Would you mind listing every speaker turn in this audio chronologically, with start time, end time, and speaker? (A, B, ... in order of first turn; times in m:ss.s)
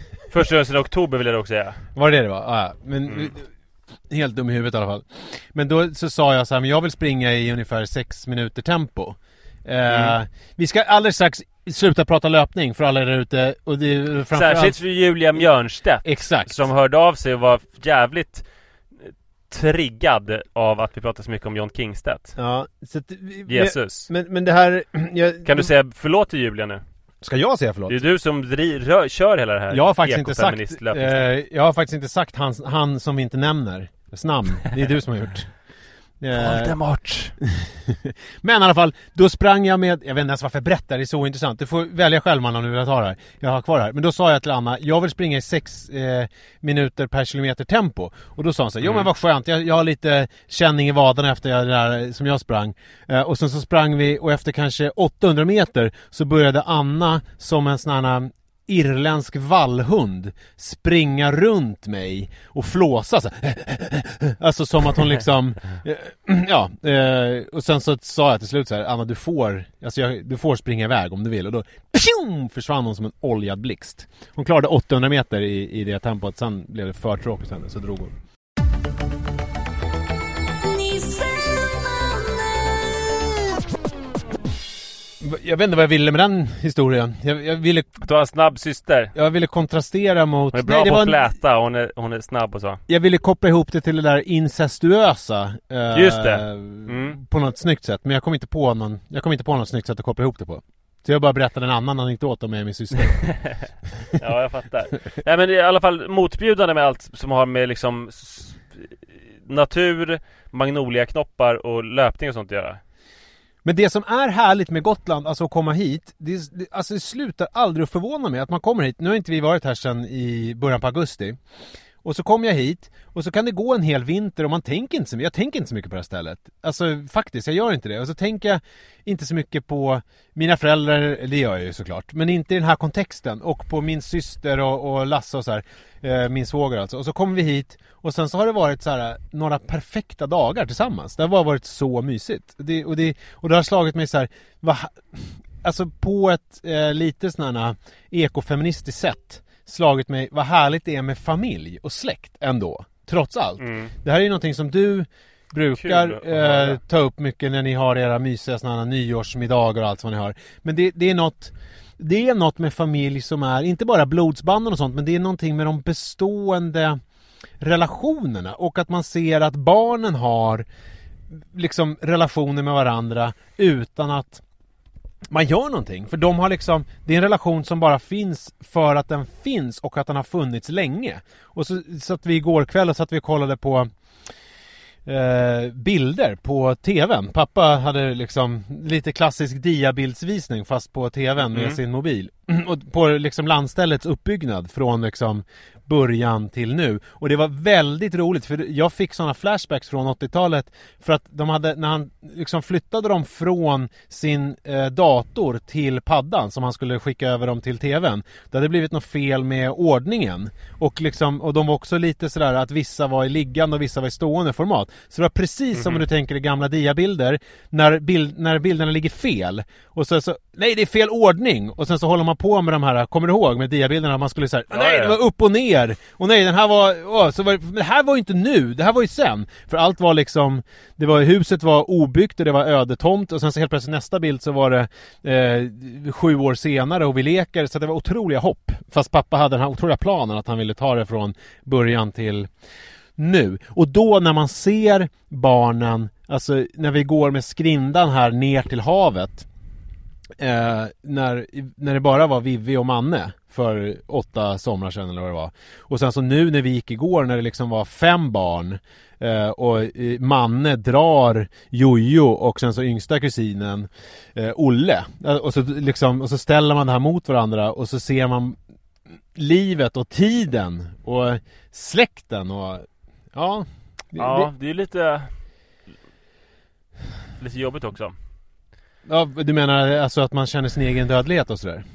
0:00.3-0:01.8 A
0:02.0-0:03.5 B
0:03.1-0:03.3 A
0:04.1-0:14.8 B
0:09.9-0:10.2 A
0:14.3-0:18.5 A
0:16.0-0:16.7 B
0:19.0-0:22.4 A
0:22.4-0:25.7 B
0:23.5-0:24.1 A
0:25.4-0:26.8 A
0:27.2-0:28.0 B
0:27.9-0:31.3 A
0:29.7-0:35.6 B
0:36.2-0:36.8 B
0:36.3-0:37.4 A
0:37.4-1:18.1 B
0:48.8-0:49.1 A
1:25.2-1:27.9 B
1:28.0-1:29.1 A
1:29.2-1:31.3 B
1:30.5-1:32.8 A
1:32.9-1:43.4 B
1:35.9-1:37.2 A
1:43.0-1:52.8 A
1:53.6-2:01.4 B
2:02.0-2:47.0 B
2:33.6-2:33.9 A
2:35.7-2:36.8 A
2:47.6-2:50.6 B
2:51.3-2:54.4 B
2:55.3-3:03.9 B
3:05.0-4:02.5 B
3:11.5-3:11.8 A
3:35.8-3:36.0 A
3:44.7-3:45.2 A
4:03.2-4:09.5 B
4:10.4-4:28.6 B
4:29.3-4:34.5 B
4:34.2-4:35.3 A
4:37.4-4:38.2 A
4:39.0-4:41.9 B